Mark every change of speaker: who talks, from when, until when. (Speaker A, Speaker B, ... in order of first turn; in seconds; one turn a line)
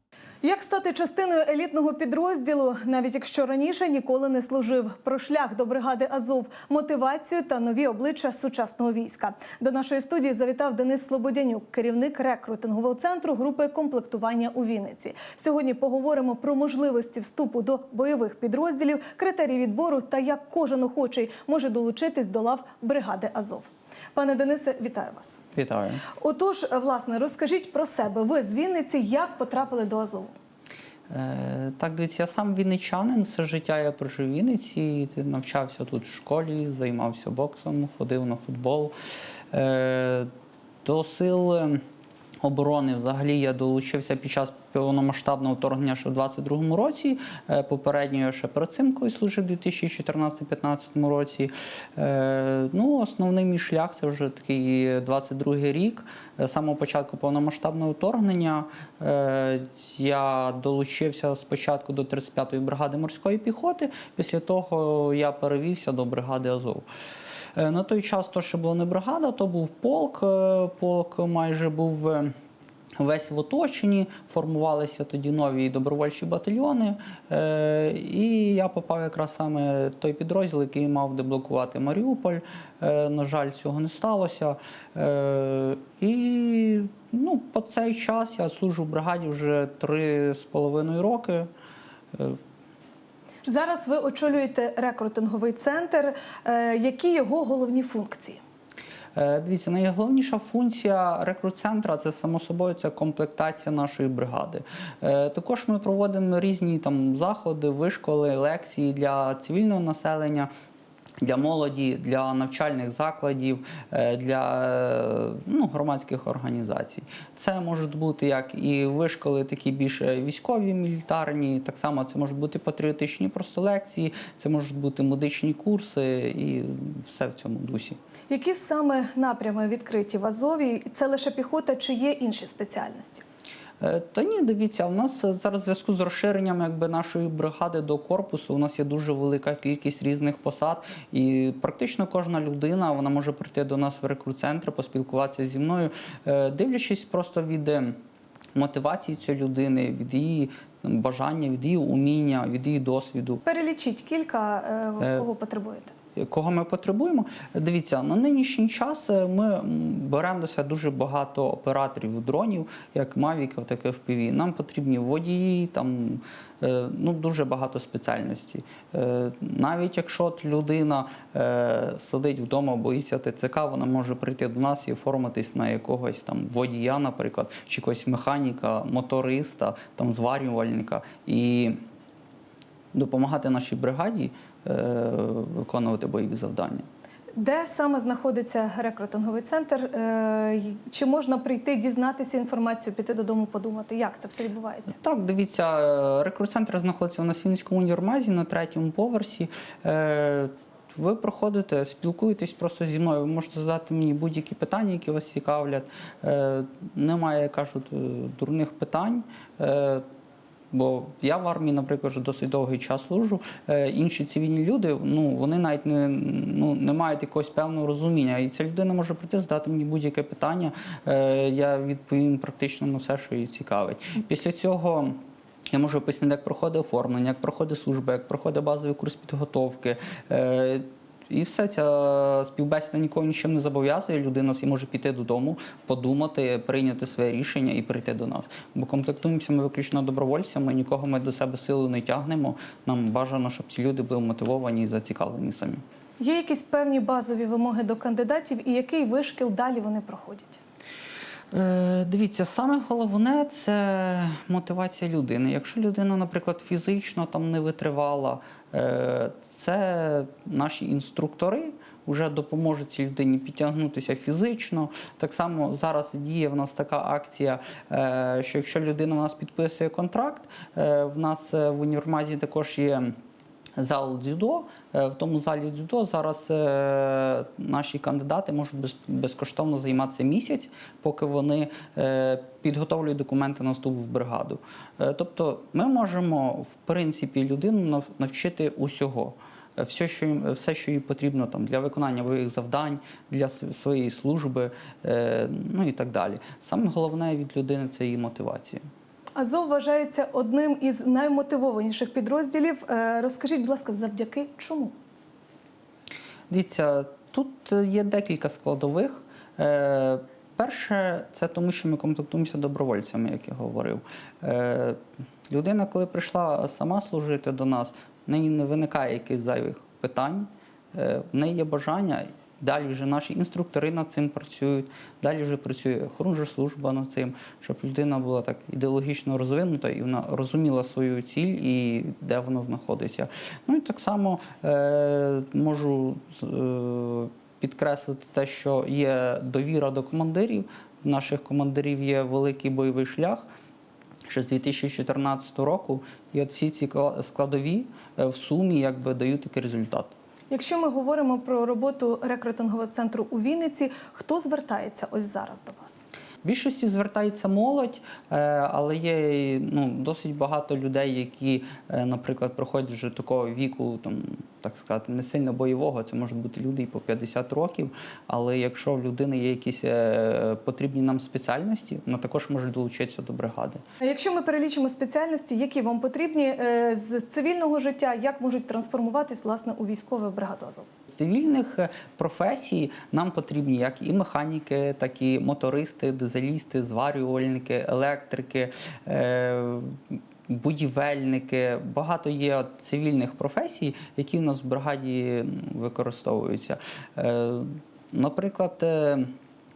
Speaker A: 0.4-25.4
Speaker B: 25.5-26.0
Speaker A: 26.2-30.3
Speaker B: 31.1-38.9
Speaker B: 39.5-40.3
Speaker B: 40.8-41.8
Speaker B: 42.4-66.9
Speaker B: 67.5-72.3
Speaker B: 73.0-91.5
Speaker B: 92.1-92.4
Speaker A: 93.5-98.4
Speaker B: 99.1-110.5
Speaker B: 111.2-128.0
Speaker A: 128.3-133.2
Speaker B: 133.8-148.0
Speaker B: 148.5-153.4
Speaker A: 153.4-155.9
Speaker B: 155.0-155.2
Speaker B: 156.2-181.8
Speaker B: 182.9-186.9
Speaker A: 187.4-194.9
Speaker B: 194.9-210.0
Speaker B: 210.7-245.8
Speaker A: 246.2-250.6
Speaker B: 251.5-273.2
Speaker B: 273.8-298.8
Speaker A: 299.4-304.9
Speaker B: 306.5-343.4
Speaker B: 344.3-350.1
Speaker A: 350.5-356.0
Speaker B: 356.4-373.8
Speaker A: 374.0-380.9
Speaker B: 381.1-399.3